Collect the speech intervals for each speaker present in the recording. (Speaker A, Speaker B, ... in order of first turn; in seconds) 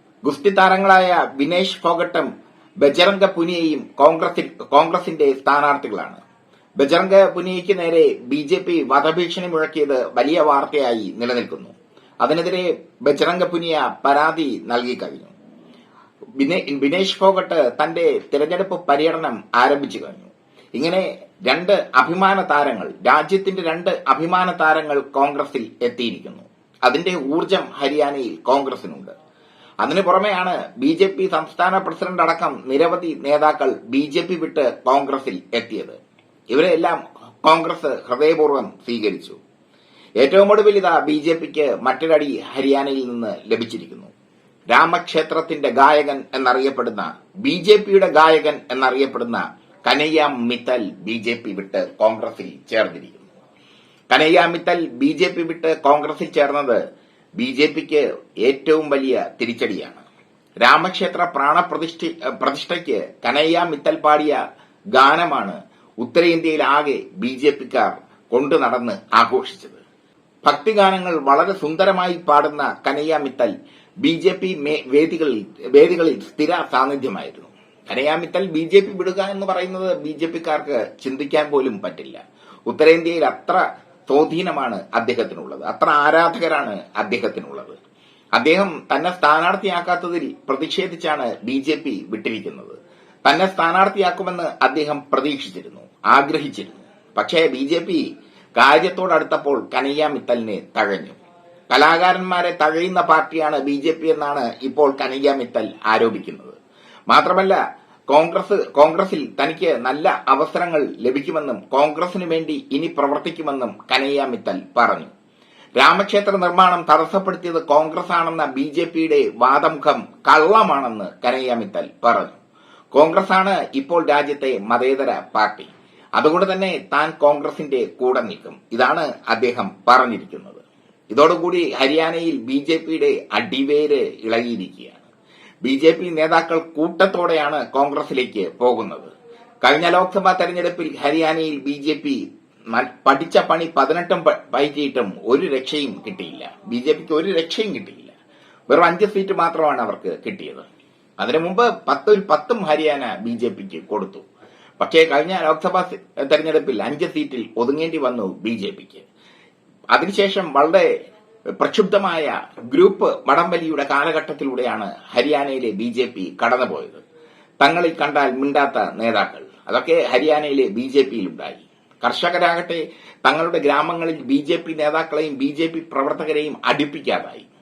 Speaker A: 0.2-2.3, 2.8-6.2, 6.8-15.3, 16.4-29.1, 29.8-36.0, 36.5-39.4, 40.2-44.1, 44.7-53.2, 54.1-56.8, 57.4-60.0, 60.6-64.4, 64.9-69.8, 70.4-73.5, 74.0-87.8, 88.4-101.2, 101.7-106.6, 107.1-107.6, 108.1-115.1, 115.8-122.4, 122.9-135.1, 135.6-139.1, 139.6-142.2, 142.7-148.1, 148.7-150.7, 151.2-154.2, 154.8-159.1, 159.9-160.9, 161.6-167.0, 167.6-177.5